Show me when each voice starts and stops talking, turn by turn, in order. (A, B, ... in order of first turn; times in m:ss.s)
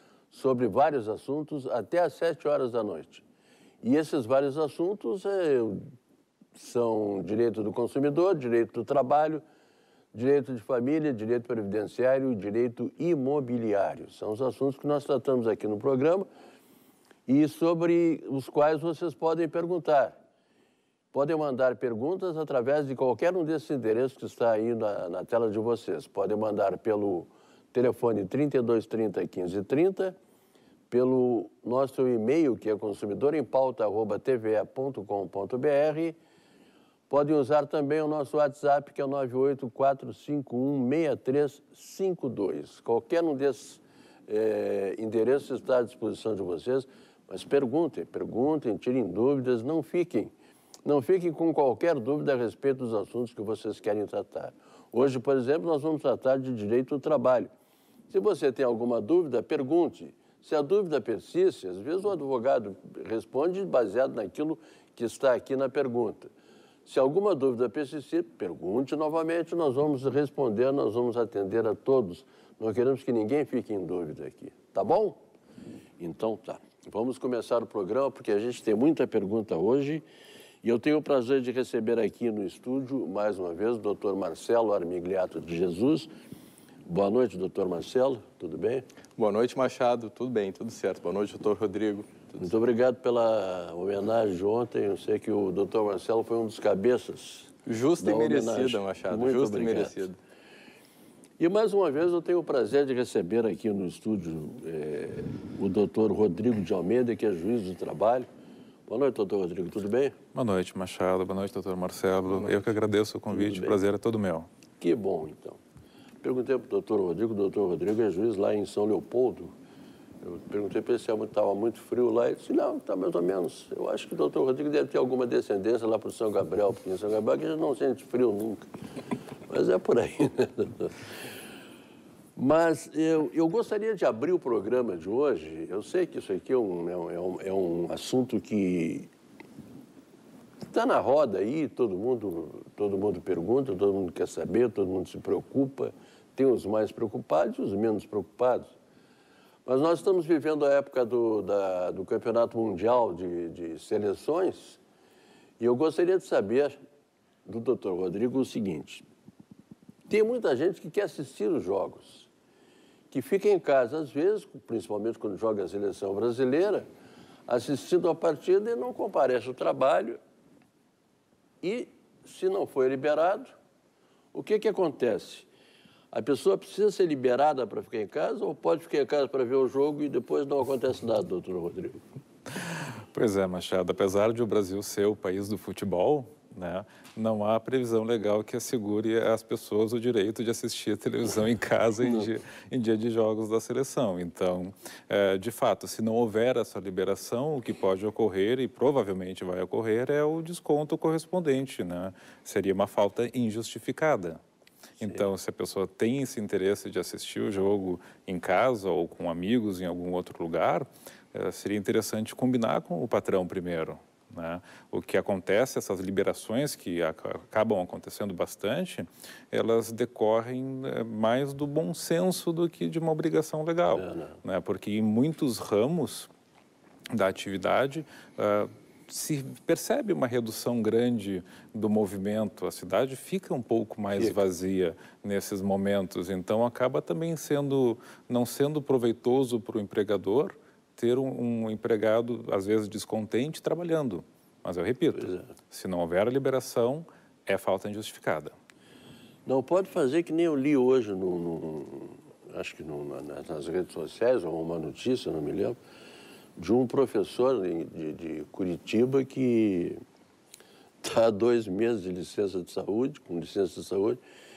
0:00.3-0:03.2 A
0:03.8-0:05.9 A
0:06.6-0:09.4 A
0:10.1-0:16.3 A
0:17.3-0:20.2 A
0:21.1-0:30.2 A
0:30.9-0:36.2 A
0:37.1-0:50.3 A
0:50.8-0:57.5 A
0:58.1-1:06.3 A
1:06.8-1:15.2 A
1:16.0-1:20.0 A
1:20.6-1:26.1 A
1:26.8-1:28.8 A
1:29.2-1:32.3 B
1:32.4-1:40.0 A
1:37.6-1:40.2 B
1:41.4-1:48.2 A
1:48.9-1:50.1 A
1:50.3-1:54.5 C
1:53.3-1:53.8 A
1:54.8-1:55.6 A
1:56.2-1:59.5 A
2:00.2-2:08.6 A
2:09.5-2:11.0 A
2:12.4-2:19.1 A
2:20.7-2:28.7 A
2:29.6-2:34.8 A
2:35.6-2:36.8 A
2:37.4-2:39.0 A
2:40.1-2:42.3 A
2:43.1-2:46.8 A
2:47.5-2:50.2 A
2:51.6-2:53.5 A
2:54.3-2:55.5 A
2:56.1-3:02.0 A
3:03.1-3:24.4 C
3:25.0-3:46.3 C
3:43.9-3:44.4 A
3:47.1-4:08.5 C
4:09.4-4:15.8 A
4:16.6-4:20.0 A
4:21.0-4:24.2 A